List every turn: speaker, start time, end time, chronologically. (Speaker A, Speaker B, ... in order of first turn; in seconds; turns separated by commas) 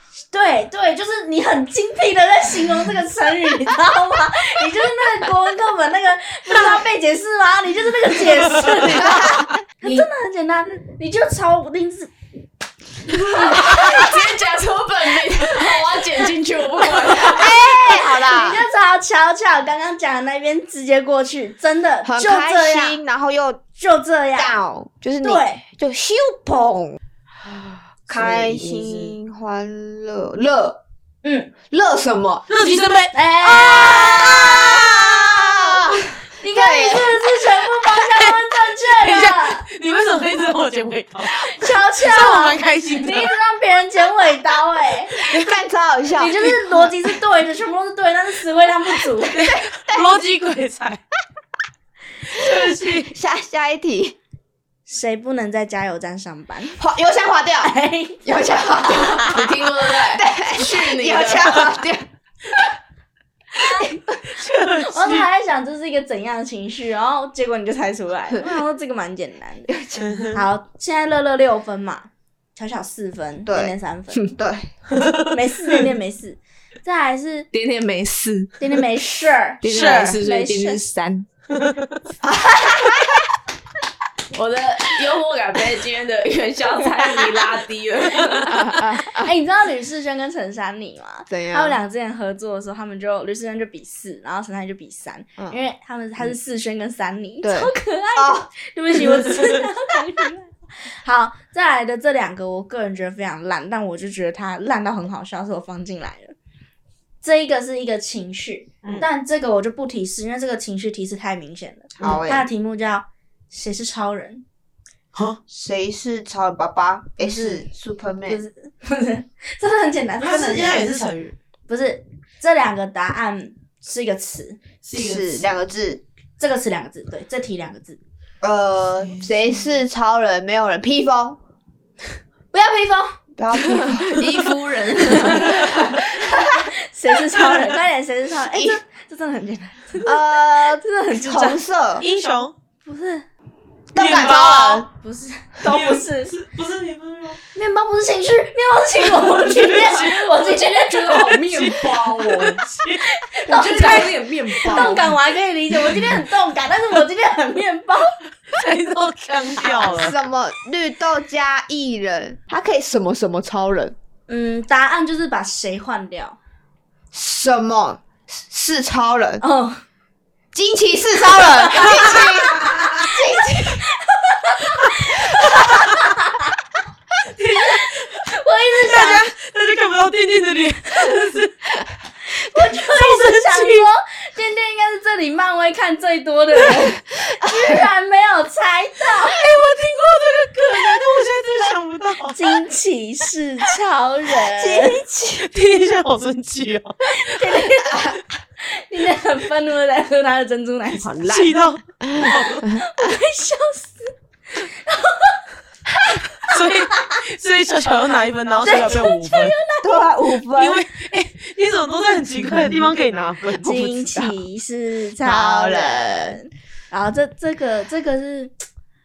Speaker A: 0.3-12.1, Speaker B: 8.4-9.2, Speaker C: 9.0-9.9, Speaker A: 13.1-14.1, Speaker D: 13.3-17.5, Speaker A: 15.4-16.0, Speaker A: 16.9-23.0, Speaker C: 17.2-18.6, Speaker C: 22.0-23.6, Speaker A: 23.8-24.6, Speaker C: 24.4-27.0, Speaker A: 25.2-25.6, Speaker B: 27.5-29.1, Speaker C: 28.1-30.8, Speaker A: 31.2-31.5, Speaker C: 31.7-32.5, Speaker B: 32.5-35.0, Speaker A: 33.1-34.9, Speaker C: 33.6-37.2, Speaker A: 36.4-39.6, Speaker B: 38.0-38.3, Speaker B: 38.9-43.3, Speaker A: 41.4-45.2, Speaker B: 45.2-45.5, Speaker C: 45.2-46.9, Speaker A: 46.2-49.4, Speaker B: 49.3-51.0, Speaker C: 49.5-50.1, Speaker B: 52.3-53.1, Speaker C: 52.4-54.2, Speaker A: 54.9-56.8, Speaker C: 56.8-57.7, Speaker A: 57.6-58.2, Speaker C: 58.2-62.1, Speaker D: 58.9-61.7, Speaker A: 63.6-63.9, Speaker B: 64.4-65.3, Speaker A: 64.8-69.8, Speaker C: 69.7-70.0, Speaker B: 70.0-70.4, Speaker A: 70.3-74.3, Speaker C: 73.5-74.7, Speaker B: 74.9-75.3, Speaker A: 75.3-77.5, Speaker D: 77.5-78.6, Speaker A: 78.6-80.8, Speaker D: 79.6-81.3, Speaker B: 79.6-80.2, Speaker B: 81.5-82.0, Speaker C: 82.2-83.2, Speaker D: 84.3-88.8, Speaker C: 88.5-89.2, Speaker A: 89.0-106.3, Speaker C: 91.3-91.8, Speaker C: 97.4-98.5, Speaker B: 99.2-99.6, Speaker A: 107.2-114.5, Speaker C: 112.0-112.5, Speaker B: 115.1-115.4, Speaker C: 115.5-118.4, Speaker A: 117.2-117.6, Speaker A: 118.3-120.9, Speaker B: 120.2-121.3, Speaker A: 121.7-124.6, Speaker B: 124.8-125.5, Speaker C: 124.9-126.0, Speaker A: 126.4-128.0, Speaker C: 128.4-131.4, Speaker A: 132.5-133.2, Speaker C: 133.4-134.2, Speaker D: 134.2-135.8, Speaker B: 135.3-135.9, Speaker C: 136.2-136.5, Speaker A: 136.3-141.6, Speaker B: 137.4-137.6, Speaker C: 138.5-138.8, Speaker C: 140.0-142.1, Speaker B: 142.0-142.5, Speaker A: 142.8-143.3, Speaker C: 143.9-144.9, Speaker B: 143.9-144.9, Speaker A: 145.0-146.3, Speaker B: 145.6-147.4, Speaker A: 147.5-151.3, Speaker B: 149.2-150.3, Speaker D: 149.9-152.6, Speaker B: 151.1-153.1, Speaker A: 153.0-158.2, Speaker D: 153.4-155.1, Speaker B: 155.9-156.2, Speaker B: 158.5-160.2, Speaker C: 159.7-164.0, Speaker A: 164.3-166.4, Speaker C: 167.1-169.4, Speaker A: 169.4-169.8, Speaker C: 170.5-173.7, Speaker A: 171.2-176.5, Speaker B: 177.4-177.9, Speaker A: 177.5-179.3, Speaker B: 178.7-181.8, Speaker A: 182.3-189.5, Speaker B: 182.6-183.9, Speaker C: 187.5-187.7, Speaker B: 189.2-192.6, Speaker A: 192.3-195.0, Speaker C: 194.4-195.5, Speaker B: 195.4-197.7, Speaker A: 197.1-201.3, Speaker C: 197.8-198.2, Speaker D: 201.0-201.6, Speaker B: 201.2-202.7, Speaker A: 202.3-205.4, Speaker B: 206.4-209.6, Speaker A: 208.6-210.1, Speaker C: 209.8-210.8, Speaker B: 210.5-214.1, Speaker A: 213.5-218.5, Speaker C: 215.2-216.4